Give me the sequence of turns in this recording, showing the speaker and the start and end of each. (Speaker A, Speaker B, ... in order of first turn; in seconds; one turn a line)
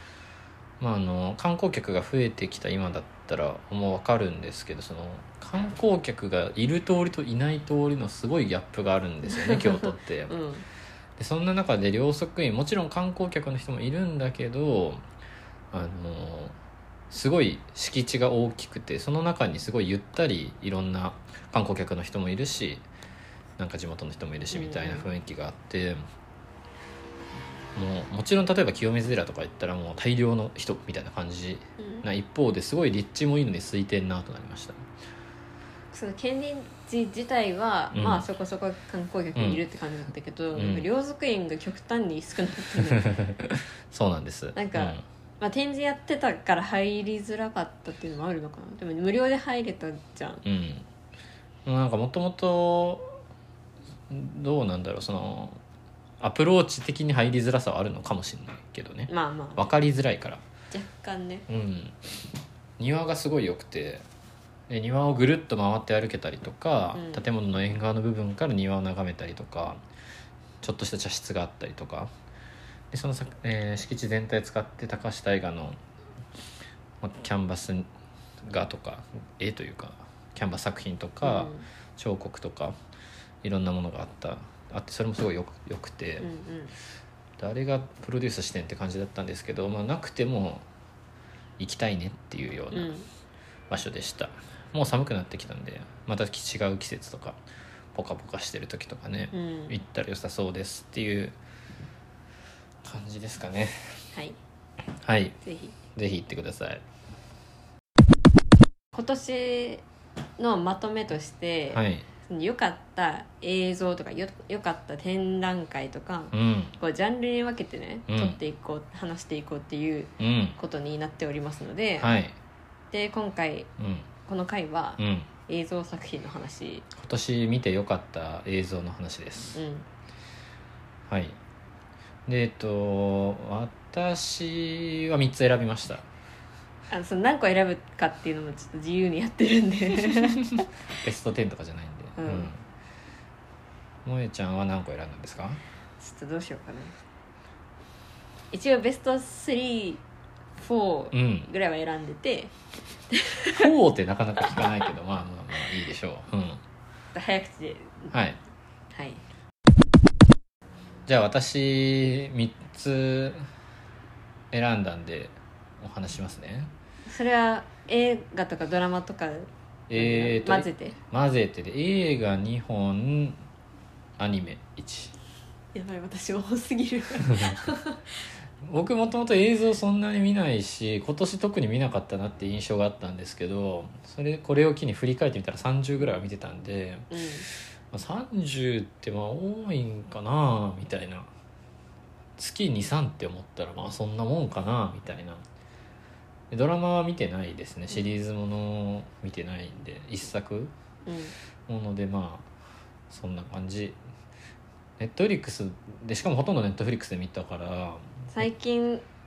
Speaker A: 0.8-10.4
Speaker B: 9.3-10.7
Speaker A: 11.2-15.0
Speaker A: 15.7-16.6
Speaker A: 17.1-22.9
Speaker A: 23.6-26.0
Speaker B: 24.5-25.1
Speaker A: 27.8-34.9
Speaker B: 31.8-32.0
Speaker B: 35.9-43.2
Speaker A: 37.9-38.2
Speaker A: 39.4-39.6
Speaker A: 40.5-40.9
Speaker A: 42.8-45.0
Speaker B: 44.5-50.4
Speaker A: 50.5-50.9
Speaker A: 51.7-53.2
Speaker A: 54.1-55.6
Speaker A: 56.2-60.4
Speaker B: 59.1-59.7
Speaker B: 60.7-61.5
Speaker A: 61.5-62.0
Speaker A: 62.8-64.0
Speaker A: 64.7-69.8
Speaker B: 66.9-67.2
Speaker A: 70.6-72.1
Speaker A: 72.9-75.8
Speaker A: 77.0-77.9
Speaker A: 78.4-82.8
Speaker B: 81.2-81.7
Speaker A: 83.4-86.3
Speaker B: 86.2-86.7
Speaker A: 87.4-90.7
Speaker A: 91.6-92.9
Speaker B: 92.7-93.1
Speaker A: 93.7-97.4
Speaker A: 97.9-101.4
Speaker B: 99.3-99.8
Speaker A: 102.8-104.1
Speaker A: 105.0-105.4
Speaker B: 105.4-105.8
Speaker A: 106.0-106.8
Speaker B: 108.9-109.8
Speaker B: 110.4-122.2
Speaker A: 111.7-112.1
Speaker A: 116.3-116.7
Speaker A: 118.1-118.4
Speaker A: 120.2-120.6
Speaker A: 122.0-122.4
Speaker B: 122.9-123.7
Speaker A: 123.8-124.1
Speaker B: 124.3-126.9
Speaker A: 125.0-125.3
Speaker A: 126.9-129.6
Speaker B: 129.5-129.9
Speaker A: 131.1-131.4
Speaker A: 132.3-136.1
Speaker B: 136.9-140.6
Speaker A: 141.0-142.6
Speaker B: 142.2-142.5
Speaker A: 144.1-145.6
Speaker B: 146.0-147.0
Speaker B: 148.5-150.0
Speaker B: 150.6-152.5
Speaker A: 151.1-151.5
Speaker B: 153.1-153.7
Speaker A: 153.5-156.6
Speaker B: 157.2-158.2
Speaker A: 158.1-158.4
Speaker B: 158.9-159.2
Speaker A: 161.1-163.5
Speaker A: 164.5-166.7
Speaker B: 167.1-171.0
Speaker A: 169.9-173.4
Speaker A: 174.2-175.2
Speaker B: 175.7-178.2
Speaker A: 177.2-177.6
Speaker A: 178.6-191.3
Speaker B: 187.1-187.5
Speaker A: 192.4-195.4
Speaker A: 196.5-200.7
Speaker B: 201.1-201.3
Speaker A: 201.7-202.5
Speaker A: 203.1-204.0
Speaker A: 205.0-208.5
Speaker B: 208.3-209.0